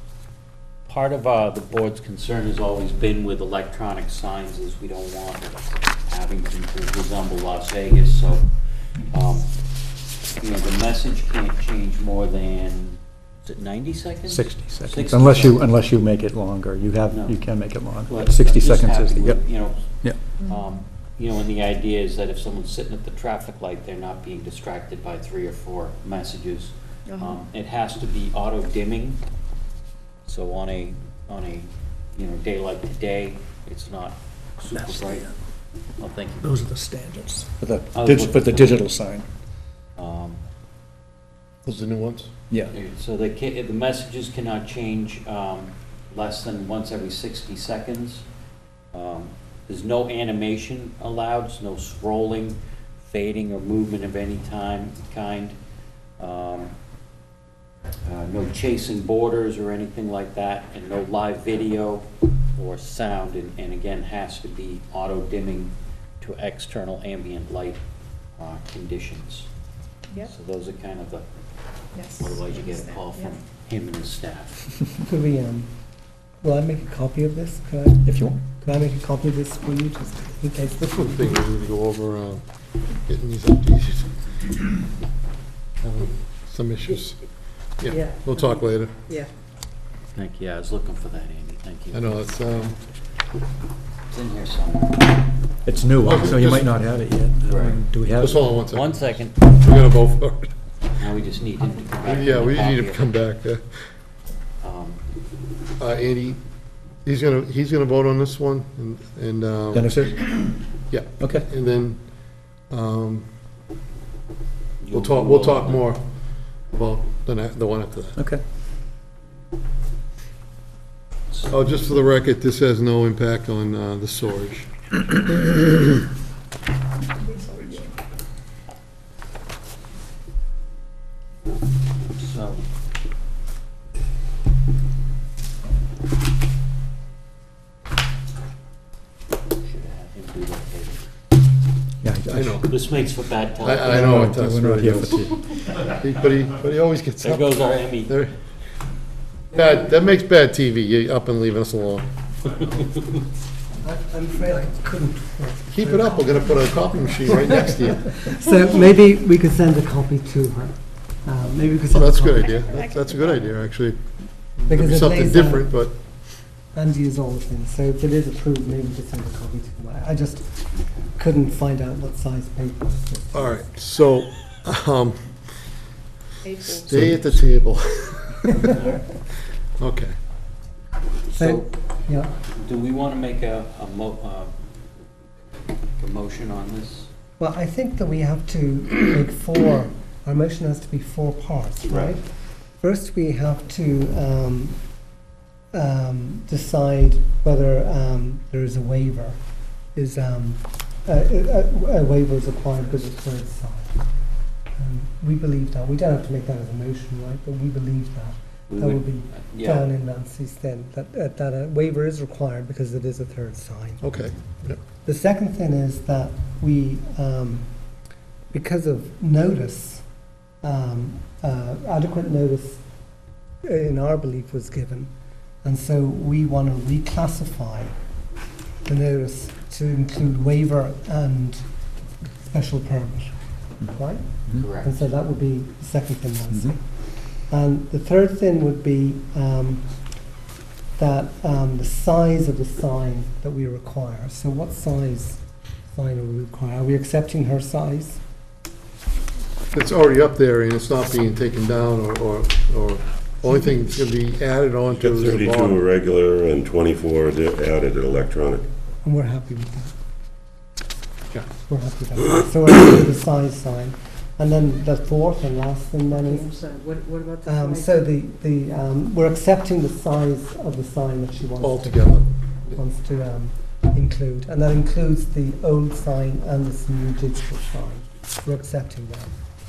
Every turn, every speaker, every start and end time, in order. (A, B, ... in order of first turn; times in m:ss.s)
0:00.9-0:09.6 A
0:10.4-0:15.7 A
0:14.3-0:20.2 B
0:17.1-0:29.2 A
0:27.1-0:27.4 C
0:30.2-0:35.3 A
0:34.7-0:35.2 B
0:36.0-0:36.6 A
0:36.5-0:39.3 B
0:37.9-0:38.8 A
0:40.0-0:40.4 A
0:41.6-0:42.3 D
0:42.7-0:48.3 A
0:48.9-0:55.6 A
0:56.2-0:56.7 A
0:58.0-1:02.0 A
1:02.6-1:07.8 A
1:08.4-1:09.5 A
1:10.2-1:11.2 A
1:11.9-1:13.4 C
1:12.0-1:14.6 A
1:15.0-1:15.7 E
1:16.4-1:21.3 E
1:18.1-1:18.4 B
1:20.8-1:22.4 D
1:23.1-1:24.2 D
1:25.8-1:27.2 D
1:27.8-1:29.1 D
1:27.9-1:28.5 C
1:30.1-1:32.2 A
1:31.9-1:32.8 D
1:34.1-1:35.1 A
1:35.6-1:38.6 B
1:36.0-1:36.8 D
1:37.4-1:39.4 A
1:38.2-1:40.5 D
1:41.0-1:43.0 A
1:42.0-1:43.6 D
1:44.6-1:45.0 A
1:45.8-1:46.4 D
1:47.0-1:50.0 D
1:49.7-1:50.5 B
1:50.9-1:53.3 D
1:51.2-1:51.5 B
1:54.8-1:55.9 A
1:54.9-1:56.1 D
1:56.6-1:58.2 D
1:58.2-1:58.4 B
2:01.5-2:04.7 D
2:07.2-2:07.9 C
2:12.1-2:12.6 A
2:19.6-2:21.0 A
2:22.0-2:22.6 B
2:22.3-2:22.7 D
2:22.6-2:24.3 A
2:23.6-2:25.3 D
2:23.9-2:25.4 B
2:25.8-2:28.3 D
2:27.2-2:28.2 A
2:29.5-2:32.1 D
2:32.6-2:32.9 A
2:33.8-2:36.7 E
2:35.7-2:38.2 D
2:37.3-2:42.7 E
2:41.9-2:44.0 D
2:44.6-2:46.0 D
2:44.7-2:45.9 E
2:46.7-2:53.7 E
2:50.7-2:51.1 A
2:53.3-2:55.4 D
2:56.4-2:57.1 C
2:56.7-2:59.0 D
2:59.8-3:00.2 D
3:01.3-3:01.7 A
3:01.4-3:02.3 E
3:02.6-3:04.5 A
3:06.0-3:07.1 A
3:07.4-3:12.2 E
3:12.8-3:14.8 E
3:15.7-3:19.4 E
3:20.0-3:24.0 E
3:24.8-3:34.1 E
3:28.7-3:29.9 A
3:34.0-3:34.8 D
3:35.0-3:37.7 E
3:38.5-3:40.0 E
3:40.6-3:42.8 E
3:43.6-3:45.1 E
3:45.6-3:48.0 E
3:48.9-3:51.6 E
3:52.4-3:56.8 E
3:54.6-3:55.1 A
3:56.5-3:56.8 B
3:57.5-3:59.9 E
4:01.0-4:08.2 E
4:09.7-4:15.9 D
4:15.0-4:18.7 F
4:19.0-4:19.9 E
4:21.7-4:26.6 E
4:26.1-4:27.9 C
4:27.4-4:32.2 E
4:31.6-4:32.3 D
4:32.7-4:39.3 E